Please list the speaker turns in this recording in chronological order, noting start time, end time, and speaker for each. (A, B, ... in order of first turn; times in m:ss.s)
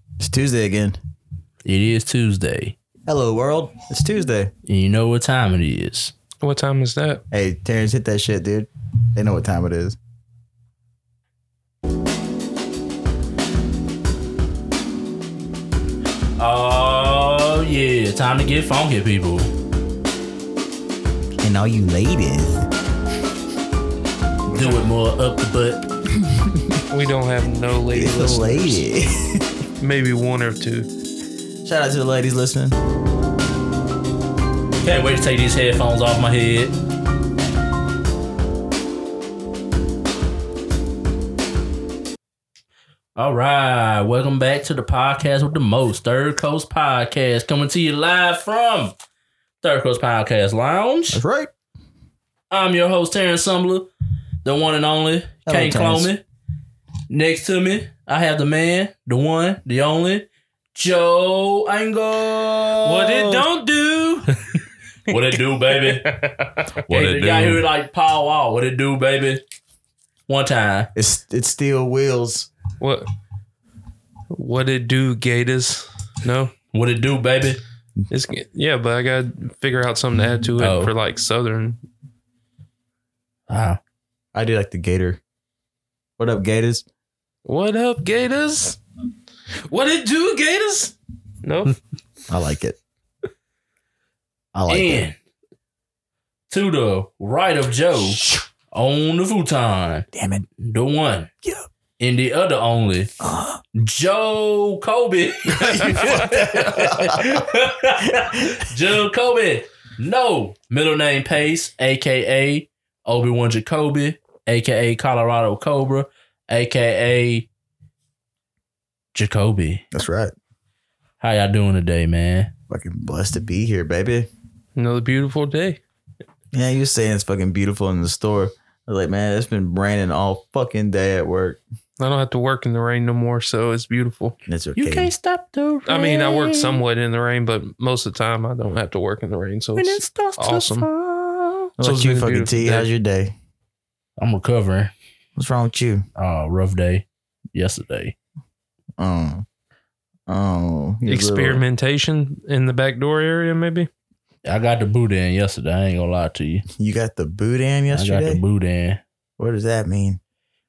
0:00.2-0:01.0 A
0:01.7-0:02.8 B
0:03.1-0:04.5 A
0:04.7-0:06.2 B
0:06.4-0:07.2 C
0:07.3-0:10.0 A
0:16.4-0:19.5 B
0:21.4-0:22.7 A
0:24.5-0:25.8 B
0:26.2-0:26.8 A
0:26.9-0:28.8 C
0:27.9-0:29.5 A
0:29.8-0:30.9 C
0:31.6-0:32.8 A
0:34.8-0:36.8 B
0:43.2-0:49.0 B
0:49.6-0:51.2 B
0:51.1-0:51.5 A
0:52.5-0:53.9 B
0:54.4-0:56.2 B
0:55.5-0:56.1 A
0:57.1-1:03.5 B
1:02.8-1:04.3 C
1:05.1-1:06.1 B
1:05.8-1:06.4 C
1:06.9-1:09.4 B
1:06.9-1:07.7 A
1:10.3-1:10.9 B
1:11.0-1:12.5 A
1:12.8-1:13.1 C
1:14.3-1:16.5 C
1:16.7-1:17.6 B
1:18.1-1:21.8 C
1:20.6-1:20.9 B
1:23.5-1:23.8 B
1:24.3-1:25.2 A
1:26.2-1:26.8 A
1:27.5-1:28.8 C
1:29.7-1:31.8 C
1:32.3-1:32.8 A
1:34.5-1:35.0 A
1:34.7-1:35.2 B
1:36.5-1:41.3 B
1:40.1-1:40.5 A
1:42.0-1:43.1 B
1:43.2-1:43.6 A
1:43.7-1:57.5 B
1:45.8-1:47.4 A
1:48.1-1:48.6 A
1:59.2-1:59.9 B
1:59.9-2:00.3 A
2:01.2-2:02.5 B
2:02.7-2:04.3 A
2:04.8-2:05.8 C
2:06.5-2:11.6 A
2:12.0-2:14.4 C
2:14.5-2:15.1 A
2:14.8-2:16.8 B
2:15.9-2:20.9 C
2:19.8-2:21.7 B
2:21.8-2:23.3 A
2:21.8-2:22.9 C
2:24.2-2:24.9 B
2:25.4-2:26.0 A
2:26.2-2:28.2 B
2:29.0-2:29.5 A
2:30.3-2:31.6 A
2:31.1-2:33.9 C
2:34.4-2:36.7 B
2:36.8-2:38.4 A
2:37.9-2:39.0 B
2:39.4-2:40.2 A